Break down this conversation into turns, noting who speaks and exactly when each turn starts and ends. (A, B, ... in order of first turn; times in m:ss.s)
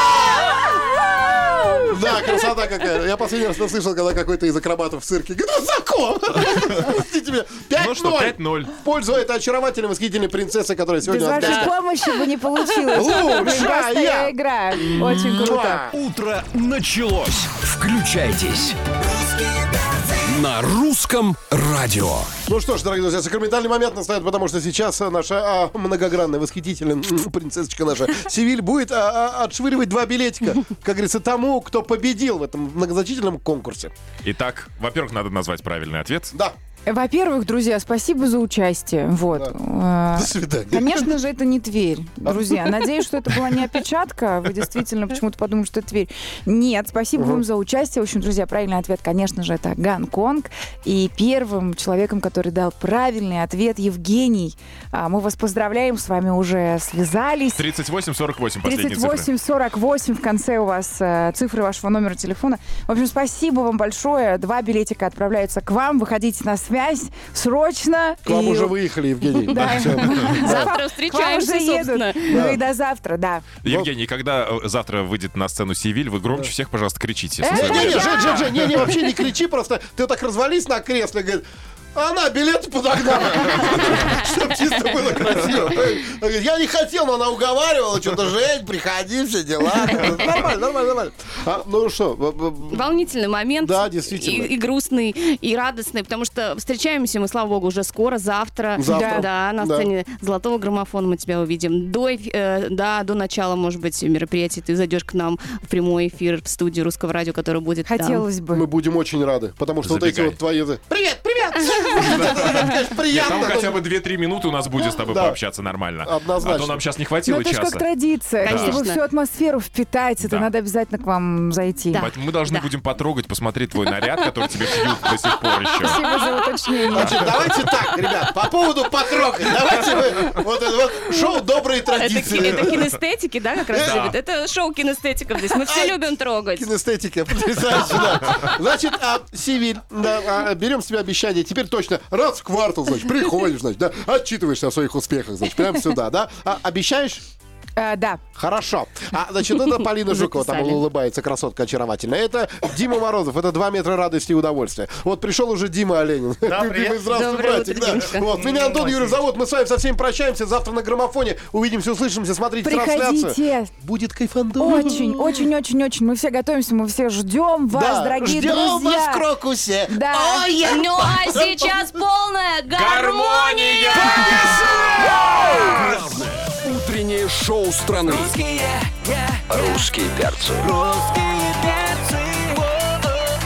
0:00.5-0:01.8 A
0:01.9-0:11.7 B
0:07.8-0:08.8 C
0:11.0-0:15.9 D
0:11.3-0:11.7 A
0:12.9-0:15.9 B
0:15.9-0:18.8 E
0:20.0-0:22.3 E
0:22.5-0:33.9 B
0:34.2-0:36.3 C
0:36.8-0:57.7 D
0:40.1-0:41.1 B
0:42.2-0:42.8 B
0:43.4-0:43.6 B
0:47.2-0:47.4 B
0:57.6-0:59.3 C
0:58.6-1:08.8 D
1:08.2-1:10.7 B
1:09.3-1:13.4 D
1:10.2-1:12.5 A
1:12.3-1:12.6 B
1:13.6-1:18.9 C
1:13.6-1:13.9 B
1:17.4-1:18.4 D
1:17.5-1:32.8 B
1:32.7-1:48.2 A
1:33.6-1:34.5 B
1:38.8-1:39.9 B
1:38.9-1:39.2 D
1:47.8-1:48.7 D
1:48.5-1:53.8 B
1:49.8-1:50.4 C
1:51.6-1:52.1 A
1:52.0-1:57.9 C
1:55.1-1:55.4 B
1:56.0-1:56.8 B
1:57.2-2:02.1 D
1:58.4-1:59.0 A
1:58.4-1:58.8 C
2:00.2-2:00.5 C
2:01.9-2:02.7 A
2:02.0-2:06.0 C
2:05.8-2:06.1 A
2:05.8-2:07.2 D
2:06.9-2:12.8 B
2:11.8-2:16.7 A
2:13.7-2:14.1 B
2:13.7-2:14.1 C
2:15.6-2:16.0 B
2:16.5-2:27.2 B
2:17.6-2:18.6 A
2:27.8-2:28.2 D
2:28.4-2:45.4 B
2:30.2-2:30.8 A
2:36.6-2:38.9 A
2:42.6-2:43.7 D
2:44.6-2:49.2 D
2:44.6-2:44.9 A
2:47.7-2:51.7 B
2:49.9-2:50.5 D
2:50.5-2:54.6 A
2:52.7-2:54.5 C
2:54.0-3:02.5 E